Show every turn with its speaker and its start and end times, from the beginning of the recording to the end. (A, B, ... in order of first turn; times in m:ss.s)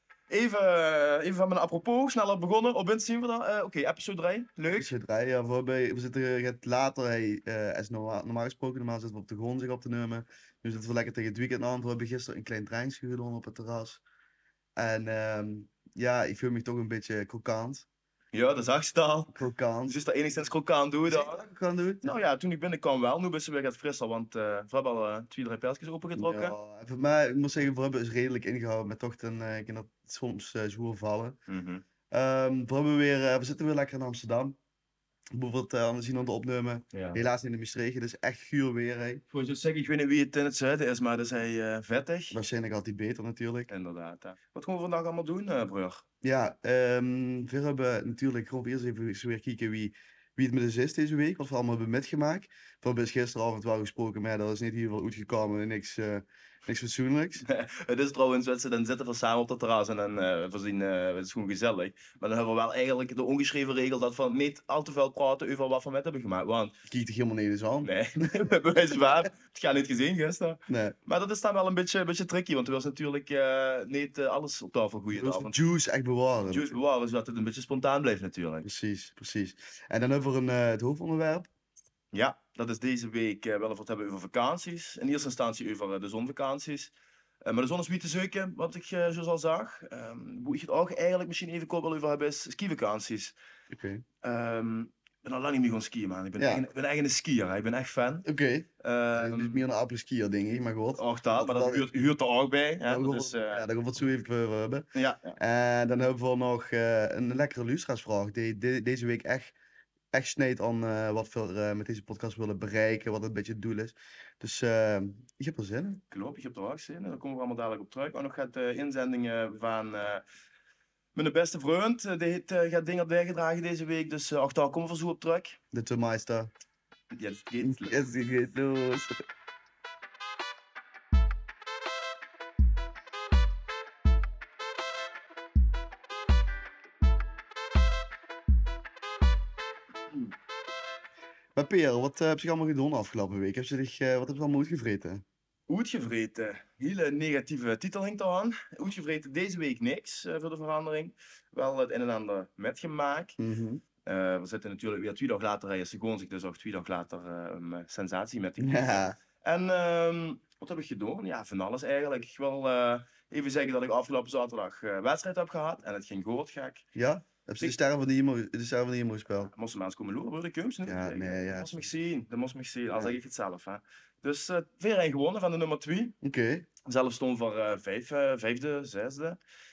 0:00.3-0:04.9 A
0:04.8-0:14.0 B
0:14.8-0:17.9 B
0:18.3-0:21.4 A
0:19.3-0:20.0 B
0:21.1-0:22.1 B
0:22.0-0:26.6 A
0:26.2-0:31.4 B
0:31.5-0:31.8 A
0:32.1-0:34.6 B
0:35.3-0:39.2 B
0:36.9-0:37.2 A
0:39.3-0:42.4 A
0:42.3-0:43.7 B
0:43.7-0:46.0 A
0:46.2-0:57.4 B
0:57.4-1:06.7 A
1:06.9-1:08.4 B
1:07.8-1:15.5 A
1:10.7-1:11.0 B
1:15.1-1:16.7 B
1:16.4-1:18.7 A
1:18.6-1:21.5 B
1:22.1-1:26.9 A
1:27.4-1:33.3 A
1:33.7-1:34.0 B
1:34.2-1:38.3 A
1:38.2-1:41.9 B
1:38.8-1:39.6 A
1:41.0-1:43.6 A
1:42.9-1:49.5 B
1:44.9-1:45.4 A
1:50.1-1:56.0 B
1:56.1-2:00.2 A
2:01.1-2:05.6 A
2:05.7-2:06.5 B
2:07.1-2:07.9 A
2:07.6-2:09.2 B
2:21.5-2:25.2 B
2:25.7-2:33.4 A
2:33.4-2:33.8 B
2:34.0-2:46.8 A
2:38.6-2:39.2 B
2:46.9-2:49.5 B
2:49.5-2:56.2 A
2:50.8-2:51.9 B
2:56.2-2:56.7 B
2:56.8-2:59.4 A